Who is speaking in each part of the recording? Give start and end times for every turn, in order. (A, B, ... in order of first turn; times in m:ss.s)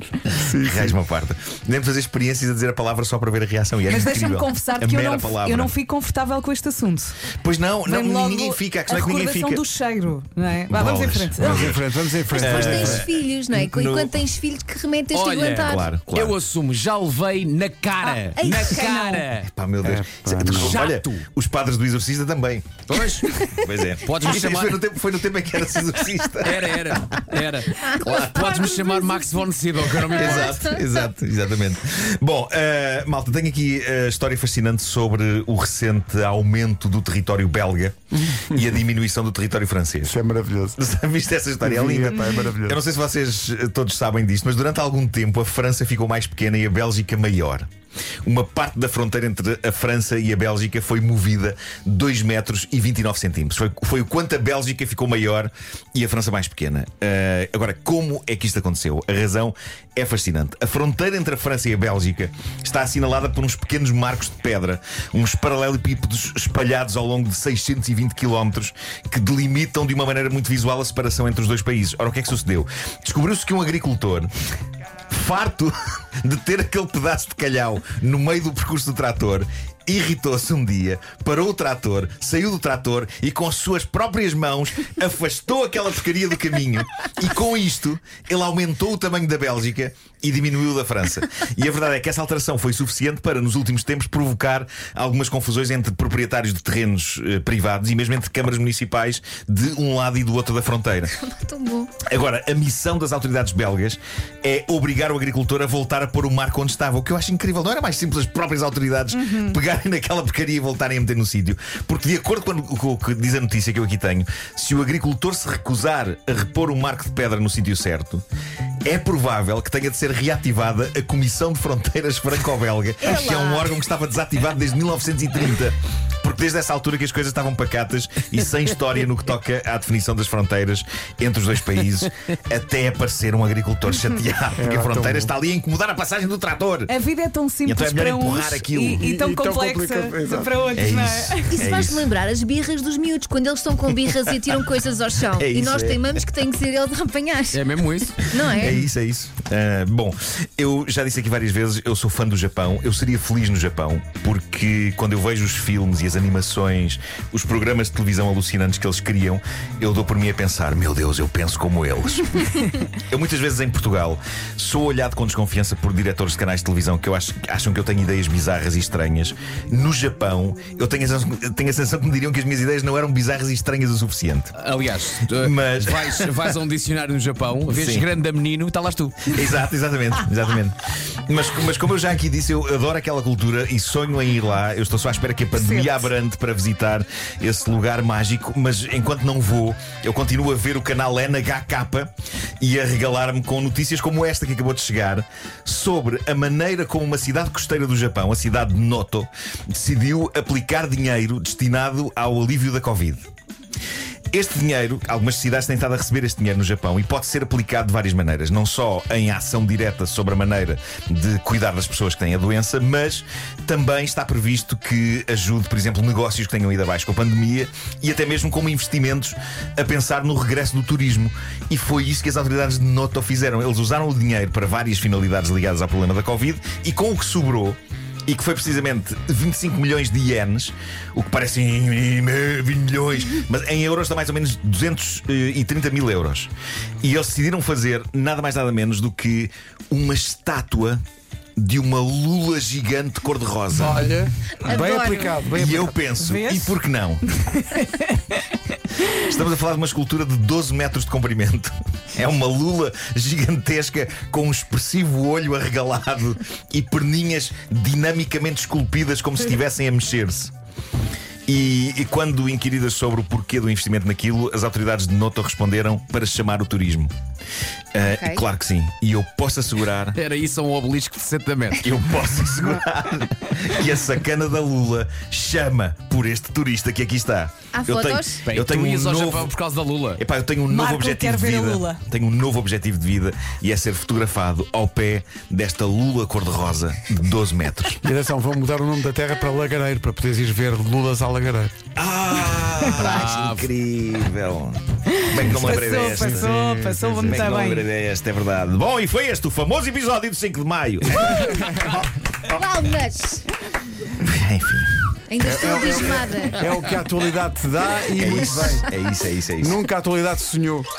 0:00.3-0:01.0 A
0:00.5-0:05.8 B
0:03.9-0:07.2 C
0:07.4-0:09.6 B
0:07.9-0:11.6 C
0:10.7-0:11.8 B
0:11.4-0:13.1 A
0:12.3-0:14.2 B
0:12.3-0:15.9 D
0:15.1-0:19.5 E
0:15.6-0:16.4 B
0:18.4-0:19.2 D
0:18.6-0:19.2 C
0:19.5-0:22.8 B
0:19.8-0:20.8 A
0:20.4-0:21.3 E
0:22.9-0:23.4 E
0:23.5-0:27.4 B
0:24.0-0:24.8 E
0:26.4-0:30.8 E
0:27.8-0:29.3 D
0:30.1-0:40.2 B
0:30.1-0:30.8 D
0:40.0-0:40.8 A
0:40.8-0:47.7 B
0:41.6-0:42.8 A
0:48.2-1:14.3 B
1:15.1-1:41.2 B
1:41.2-1:42.0 D
1:42.0-1:58.2 B
1:49.2-1:49.6 C
1:58.8-2:16.9 B
2:03.0-2:03.7 D
2:14.6-2:15.3 A
2:16.9-2:21.6 C
2:17.6-2:19.1 B
2:19.0-2:20.6 A
2:20.7-2:22.1 B
2:21.5-2:28.8 D
2:24.2-2:24.6 B
2:25.3-2:26.2 B
2:27.5-2:28.3 E
2:28.4-2:54.5 B
2:54.6-2:59.4 E
2:55.3-2:56.6 B
2:57.7-2:58.1 B
2:59.3-3:23.2 B
3:05.6-3:06.0 C
3:24.3-4:01.0 B
4:01.6-4:04.1 B
4:03.7-4:06.0 A
4:04.6-4:05.4 D
4:05.5-4:07.2 B
4:06.2-4:06.8 C
4:07.3-4:08.4 C
4:09.2-4:20.5 B
4:21.5-4:27.1 B
4:27.9-4:30.2 B
4:28.0-4:28.4 D
4:30.2-4:32.0 E
4:31.7-4:39.5 B
4:37.7-4:38.4 D
4:38.4-4:40.2 E
4:40.2-4:48.0 B
4:40.7-4:42.0 C
4:48.0-4:51.7 A
4:52.0-4:56.5 B
4:52.9-4:53.7 E
4:55.2-4:57.8 C
4:55.4-4:57.5 A
4:57.2-5:02.0 B
5:01.5-5:01.9 A
5:02.4-5:03.4 D
5:04.2-5:05.0 B
5:05.3-5:06.6 D
5:05.4-5:08.9 A
5:08.1-5:09.8 B
5:09.6-5:10.9 A